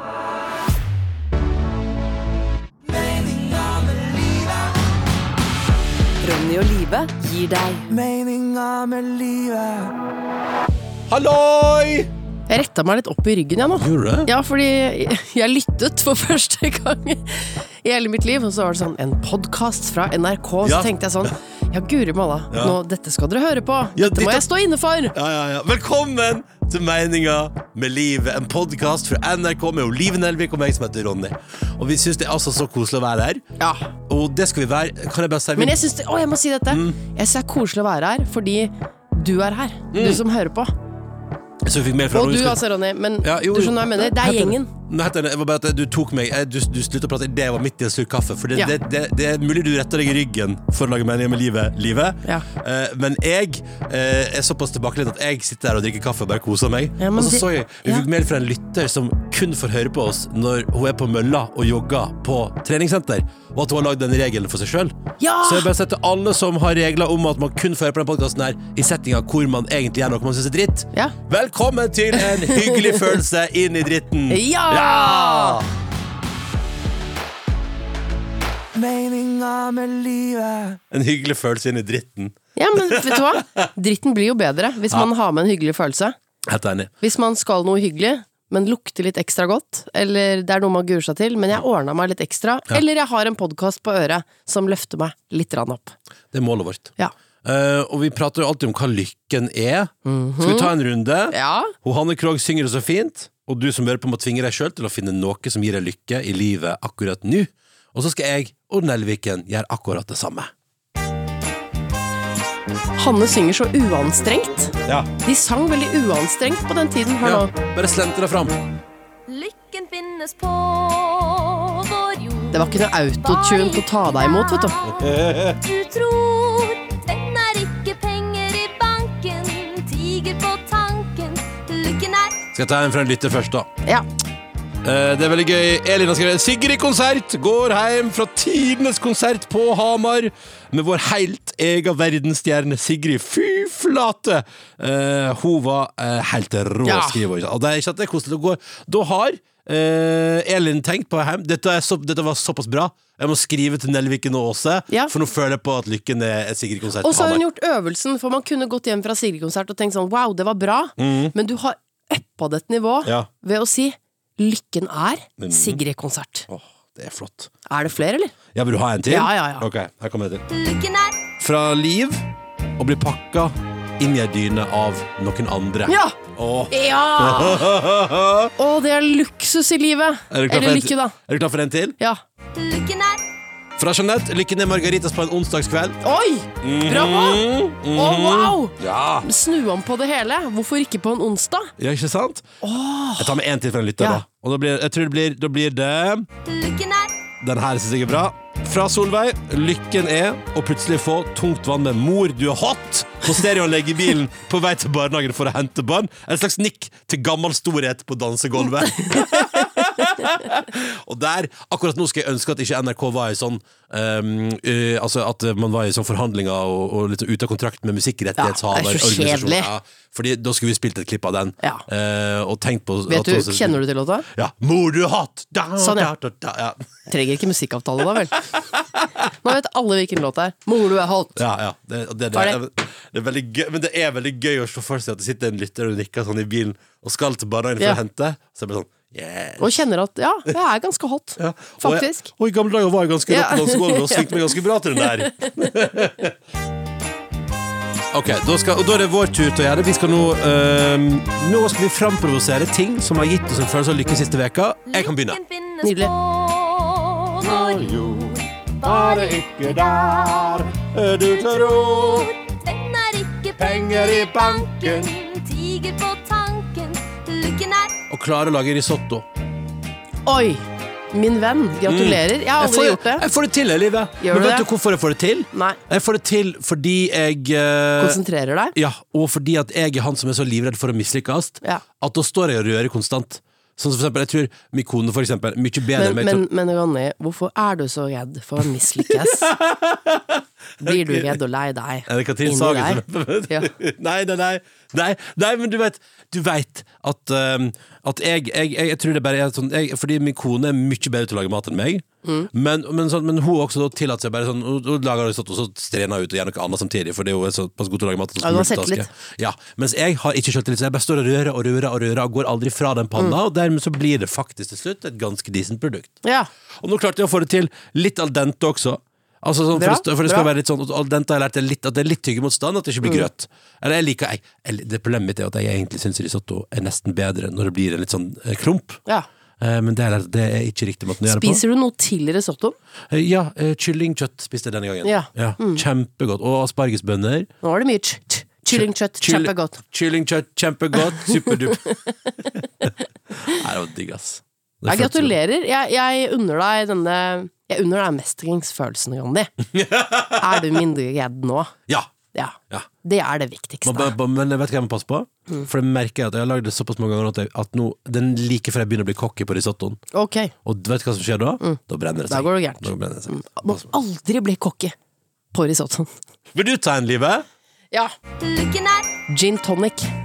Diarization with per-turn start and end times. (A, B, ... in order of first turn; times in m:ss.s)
0:02.9-0:04.6 A
0:06.2-0:07.8 B
0:07.9-0:09.9 A
0:11.1-0:12.1 C
0:12.5-0:25.1 B
0:13.8-0:14.3 C
0:20.6-0:21.3 C
0:22.5-0:22.8 C
0:24.0-0:24.4 C
0:25.1-0:33.4 C
0:33.6-0:33.9 B
0:34.1-0:35.8 C
0:35.6-0:40.7 B
0:36.7-0:37.0 C
0:39.9-0:40.2 C
0:41.6-0:42.6 C
0:42.1-0:44.7 B
0:43.2-1:15.6 C
0:57.0-0:58.0 B
1:05.2-1:05.7 B
1:12.1-1:13.2 B
1:14.3-1:15.6 B
1:18.7-1:20.8 A
1:20.9-1:23.6 C
1:22.6-1:26.2 B
1:26.4-1:26.9 C
1:27.0-1:36.0 B
1:36.3-1:36.9 C
1:37.4-1:50.5 C
1:40.0-1:40.7 B
1:41.3-1:41.7 B
1:53.0-1:57.5 B
1:57.2-1:58.6 C
1:59.3-2:05.1 D
2:02.5-2:04.8 B
2:04.8-2:05.6 C
2:05.6-2:12.4 D
2:12.5-2:13.7 C
2:14.8-2:37.4 C
2:26.8-2:27.2 B
2:37.0-2:46.5 B
2:41.0-2:41.3 C
2:45.4-2:45.8 C
2:46.5-2:47.5 C
2:47.7-2:48.3 B
2:48.5-2:50.4 C
2:49.1-2:49.7 B
2:50.5-2:51.2 D
2:51.4-2:52.2 C
2:52.8-2:58.5 C
2:55.9-2:56.2 B
2:56.7-2:57.7 B
2:58.6-3:01.2 B
3:00.3-3:02.0 C
3:02.5-3:03.2 D
3:03.8-3:06.0 C
3:06.0-3:07.4 B
3:06.6-3:09.3 C
3:07.9-3:11.7 B
3:11.8-3:12.4 C
3:12.6-3:13.3 B
3:13.2-3:16.3 C
3:16.4-3:17.1 D
3:17.4-3:43.8 C
3:38.4-3:39.7 B
3:43.1-3:44.2 B
3:44.3-3:46.8 C
3:45.8-3:46.1 B
3:47.1-3:48.5 B
3:49.4-3:51.4 B
3:51.3-3:59.8 C
3:52.3-3:52.6 B
3:59.6-4:02.3 B
4:01.4-4:06.3 C
4:03.3-4:04.5 B
4:05.3-4:05.5 B
4:08.1-4:15.4 C
4:14.9-4:20.6 D
4:15.8-4:16.1 B
4:17.4-4:22.3 C
4:21.3-4:28.0 D
4:23.6-4:25.1 C
4:28.1-4:29.2 C
4:30.2-4:33.2 B
4:31.8-4:38.2 C
4:34.2-4:34.7 B
4:35.5-4:35.8 B
4:38.0-4:38.7 B
4:38.7-4:46.5 C
4:45.9-4:49.5 B
4:49.1-4:51.3 C
4:50.8-4:53.7 B
4:52.1-5:16.2 C
5:02.2-5:02.5 B
5:08.4-5:09.1 B
5:16.2-5:16.5 B
5:16.8-5:29.0 C
5:19.7-5:20.5 B
5:23.0-5:23.3 B
5:29.6-5:31.6 C
5:31.2-5:32.8 B
5:33.1-5:37.5 C
5:35.0-5:35.8 B
5:37.6-5:39.8 B
5:38.7-5:42.0 C
5:43.4-5:45.3 C
5:44.9-5:49.5 B
5:49.7-5:50.6 C
5:50.3-5:51.7 B
5:52.3-5:54.1 B
5:53.8-6:00.0 C
6:00.1-6:00.5 B
6:00.6-6:03.9 C
6:01.6-6:05.0 B
6:05.5-6:06.1 B
6:06.5-6:07.4 C
6:08.4-6:09.1 D
6:09.3-6:10.1 B